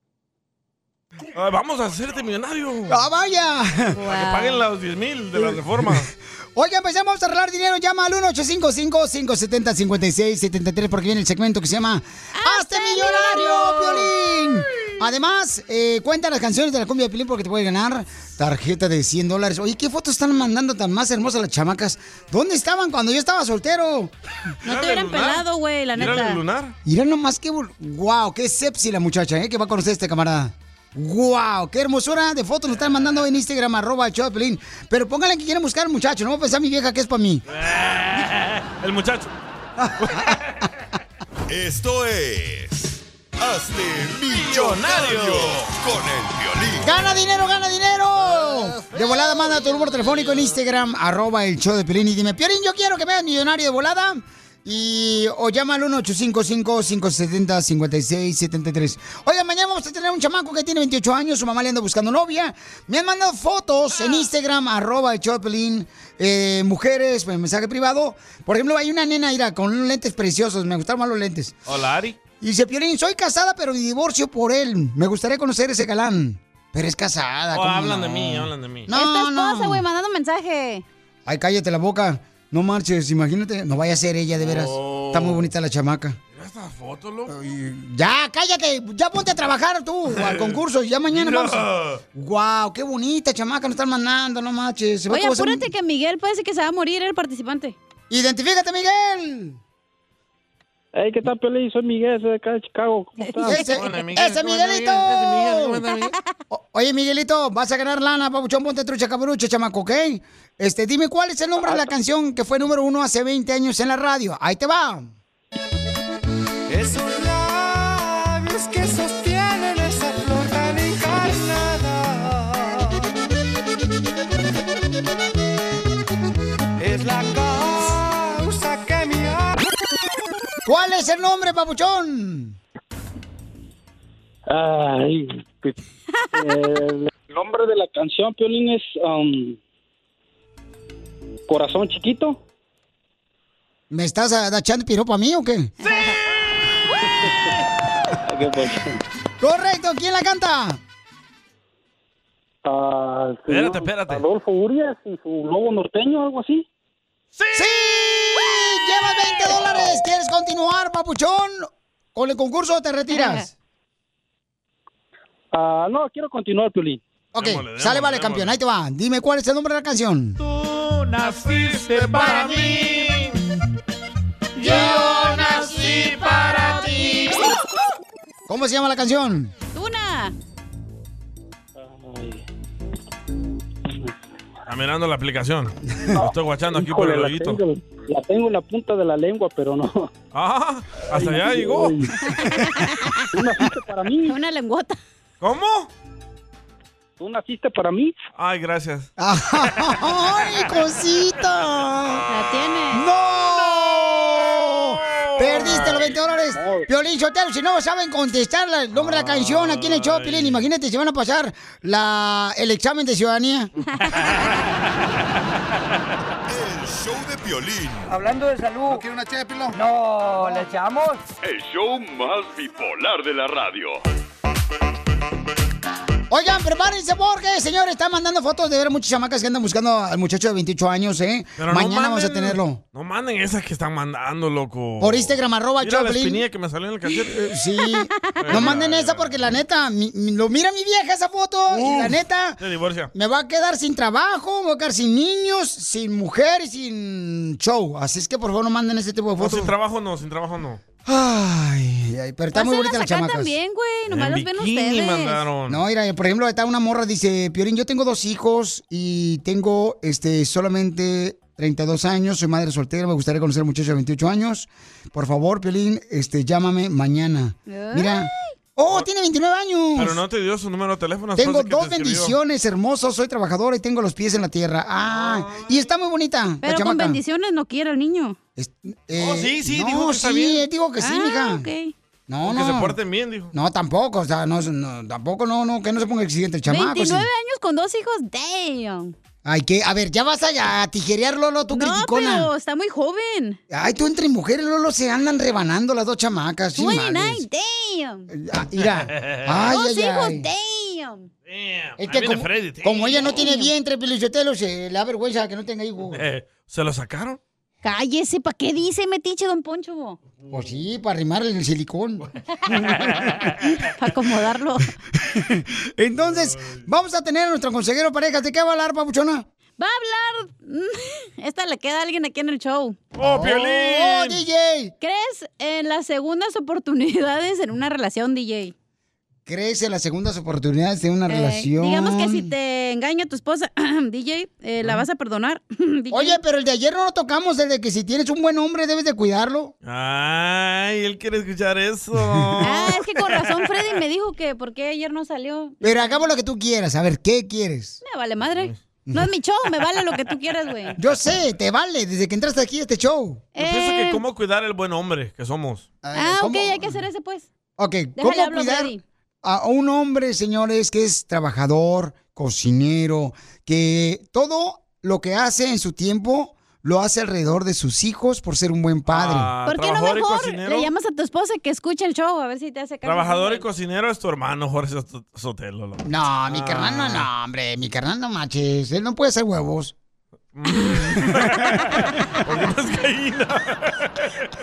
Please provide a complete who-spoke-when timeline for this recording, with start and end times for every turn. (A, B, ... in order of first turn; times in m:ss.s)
0:01.3-0:03.0 A
0:02.9-0:04.0 B
0:04.0-0:04.6 C
0:04.0-0:06.1 A
0:05.3-0:24.1 B
0:12.4-0:14.0 C
0:24.6-0:25.4 A
0:24.6-0:26.4 C
0:26.0-0:26.8 A
0:26.8-0:37.4 B
0:37.5-0:39.3 A
0:39.8-0:40.3 B
0:40.0-0:40.7 A
0:41.5-0:46.9 D
0:44.3-0:45.7 A
0:46.8-1:11.6 B
0:50.1-0:50.3 A
1:11.7-1:12.2 A
1:12.4-1:19.8 B
1:17.5-1:18.9 A
1:18.9-1:20.8 C
1:21.3-1:26.2 B
1:24.4-1:25.5 A
1:26.3-1:27.3 A
1:27.3-1:35.7 B
1:30.1-1:32.0 A
1:35.1-1:37.8 C
1:38.1-1:39.6 B
1:40.9-1:43.6 E
1:43.3-1:43.7 C
1:43.4-1:45.8 B
1:43.7-1:46.2 A
1:46.5-1:55.1 B
1:56.7-2:03.0 F
2:06.8-2:09.5 F
2:10.6-2:12.6 B
2:14.5-2:15.8 E
2:16.3-2:19.6 E
2:21.5-2:22.4 E
2:23.9-2:25.7 B
2:25.9-2:26.2 C
2:28.2-2:29.0 E
2:29.4-2:30.8 B
2:32.6-2:36.7 E
2:33.5-2:34.2 A
2:37.4-2:37.8 A
2:37.5-2:43.5 B
2:45.5-2:47.0 E
2:47.3-2:50.4 B
2:47.4-2:48.6 A
2:50.4-2:53.4 A
2:54.6-2:57.5 A
2:54.6-2:56.9 B
2:58.5-2:59.5 B
2:59.7-3:00.3 C
3:01.8-3:02.4 E
3:04.7-3:07.6 A
3:06.7-3:10.1 E
3:10.3-3:12.0 A
3:11.1-3:12.1 E
3:12.3-3:13.2 C
3:13.3-3:14.4 E
3:14.3-3:15.0 C
3:15.4-3:15.9 A
3:17.2-3:18.2 E
3:18.4-3:19.1 A
3:19.2-3:22.2 B
3:22.3-3:23.0 C
3:22.9-3:33.7 B
3:23.7-3:26.1 A
3:26.5-3:26.9 E
3:28.9-3:30.7 A
3:34.1-3:34.5 A
3:36.5-3:38.2 D
3:38.1-3:39.0 G
3:39.7-3:41.2 G
3:41.4-3:44.0 H
3:46.3-3:52.8 B
3:51.6-3:57.4 A
3:55.0-3:56.4 B
3:57.2-4:02.6 B
3:57.8-3:58.7 C
3:58.4-3:59.6 A
4:01.7-4:03.1 A
4:03.1-4:09.7 B
4:09.4-4:10.8 A
4:11.0-4:13.6 B
4:12.5-4:15.4 C
4:14.1-4:15.8 A
4:15.7-4:30.2 B
4:27.7-4:28.3 C
4:30.0-4:32.4 A
4:31.4-4:37.2 B
4:35.1-4:35.8 A
4:36.6-4:38.4 C
4:38.6-4:41.7 B
4:39.1-4:40.6 A
4:41.0-4:41.9 C
4:42.3-4:43.0 B
4:42.4-4:43.5 A
4:43.5-4:47.3 B
4:46.7-4:49.1 C
4:49.4-4:52.5 B
4:51.7-4:53.6 C
4:53.7-4:57.4 B
4:56.8-4:58.3 C
4:58.3-5:00.5 B
4:58.9-4:59.6 A
4:59.7-5:01.3 C
5:01.5-5:03.4 A
5:02.0-5:06.2 B
5:03.3-5:03.7 C
5:06.1-5:07.4 A
5:07.8-5:10.2 C
5:10.5-5:12.2 B
5:14.0-5:14.9 C
5:15.2-5:19.4 B
5:16.4-5:16.8 A
5:19.8-5:23.0 C
5:23.1-5:24.4 A
5:23.2-5:24.9 B
5:25.0-5:28.7 C
5:29.4-5:32.5 B
5:31.3-5:36.4 C
5:36.1-5:39.7 B
5:39.8-5:43.0 A
5:42.3-5:42.7 B
5:42.6-5:46.2 C
5:45.8-5:48.0 B
5:48.0-5:51.0 C
5:51.0-5:53.4 B
5:53.6-5:54.2 C
5:53.6-5:55.9 A
5:56.0-5:56.9 B
5:56.1-5:57.5 C
5:57.8-6:09.5 B
5:58.2-5:59.0 C
6:09.1-6:10.9 A
6:09.7-6:13.6 C
6:13.0-6:17.3 A
6:16.0-6:19.9 B
6:20.5-6:24.3 A